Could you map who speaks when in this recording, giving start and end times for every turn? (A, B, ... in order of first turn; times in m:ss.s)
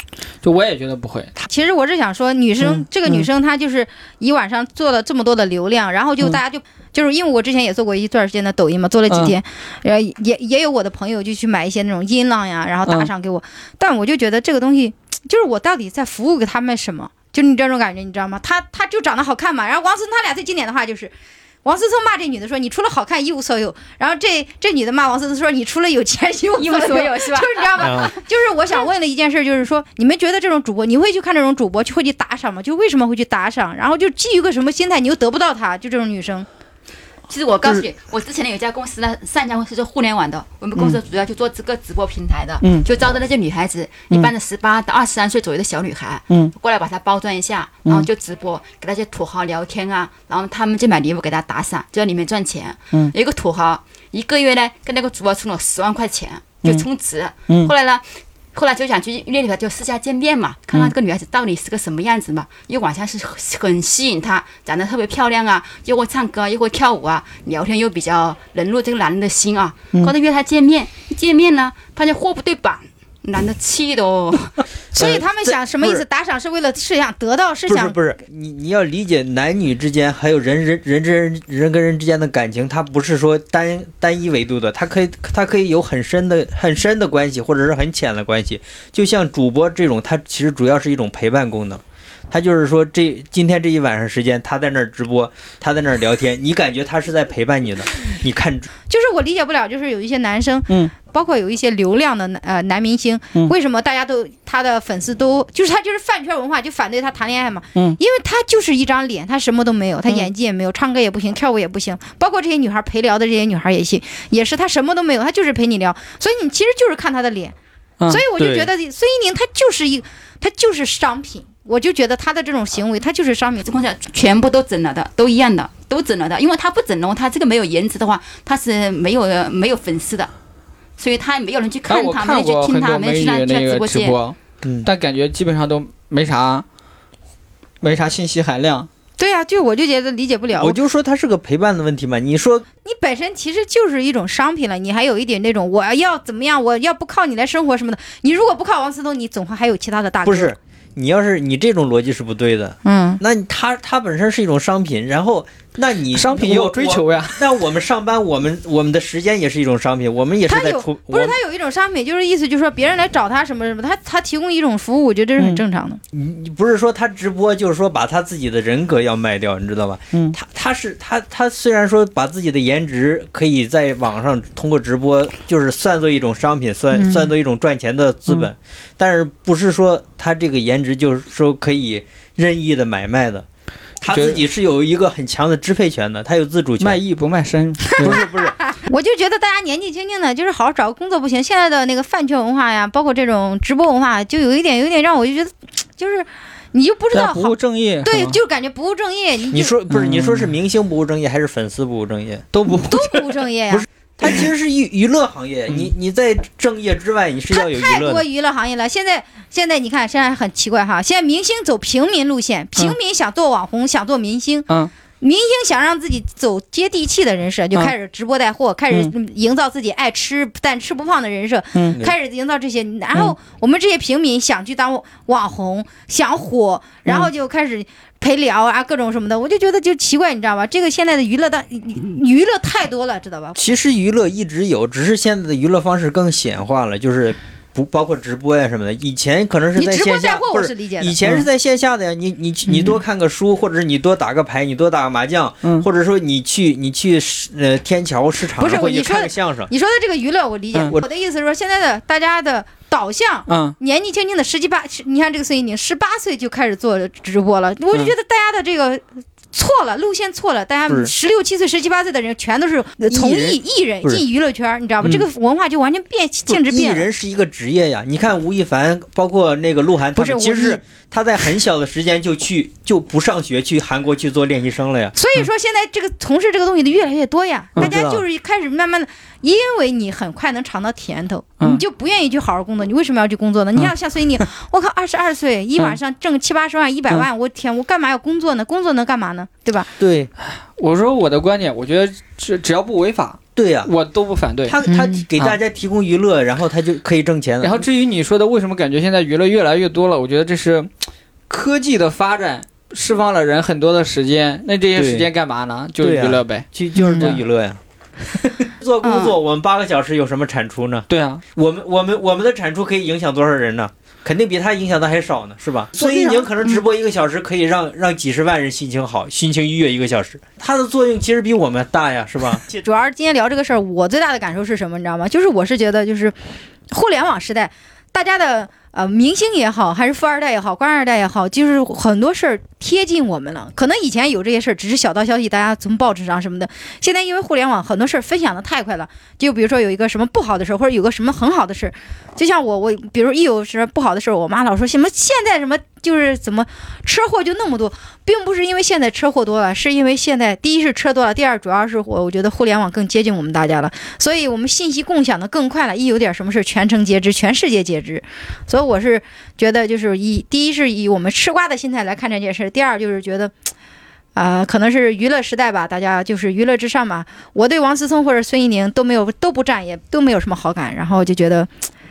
0:00.4-0:01.3 A
0:01.4-0:21.1 B
0:02.6-0:03.2 A
0:09.1-0:09.4 A
0:12.8-0:13.1 A
0:21.6-0:36.5 B
0:26.6-0:28.2 C
0:27.8-0:28.1 D
0:37.3-1:14.6 C
0:57.5-0:57.7 A
1:14.9-1:18.0 B
1:14.9-1:16.0 D
1:17.7-1:38.7 D
1:38.9-1:57.5 B
1:58.1-2:03.8 B
1:58.4-1:58.7 D
2:03.6-2:10.3 C
2:11.0-2:14.2 C
2:11.9-2:16.6 A
2:14.6-2:14.9 D
2:17.8-2:18.9 A
2:19.2-2:20.8 B
2:20.6-2:22.6 D
2:22.8-2:30.6 B
2:30.2-2:41.4 D
2:32.8-2:33.2 B
2:36.1-2:37.4 A
2:40.5-2:46.0 B
2:46.1-3:03.4 D
2:56.9-2:57.3 B
3:04.0-3:07.0 D
3:04.1-3:04.4 A
3:06.8-3:08.2 A
3:08.0-3:08.6 D
3:08.7-3:19.7 B
3:17.1-3:18.4 A
3:19.5-3:22.5 D
3:19.9-3:20.5 A
3:22.5-3:23.3 A
3:22.9-3:23.8 B
3:23.7-3:28.2 D
3:27.5-3:34.7 B
3:35.2-3:53.7 B
3:53.6-4:09.7 D
3:59.8-4:01.2 B
4:08.6-4:27.1 B
4:10.7-4:11.0 A
4:13.5-4:13.8 A
4:23.1-4:24.2 D
4:26.5-4:35.1 D
4:30.2-4:30.8 B
4:35.1-4:49.9 B
4:37.8-4:38.2 D
4:50.0-4:50.3 D
4:50.4-4:54.8 A
4:53.6-4:53.9 D
4:54.6-4:57.8 D
4:54.8-4:55.2 B
4:57.6-5:00.9 A
5:01.5-5:07.4 A
5:04.9-5:05.3 D
5:06.0-5:22.6 D
5:07.0-5:07.3 B
5:09.0-5:09.4 C
5:11.1-5:11.4 A
5:15.9-5:16.8 A
5:22.7-5:26.3 B
5:26.9-6:03.5 B
6:04.4-6:11.7 B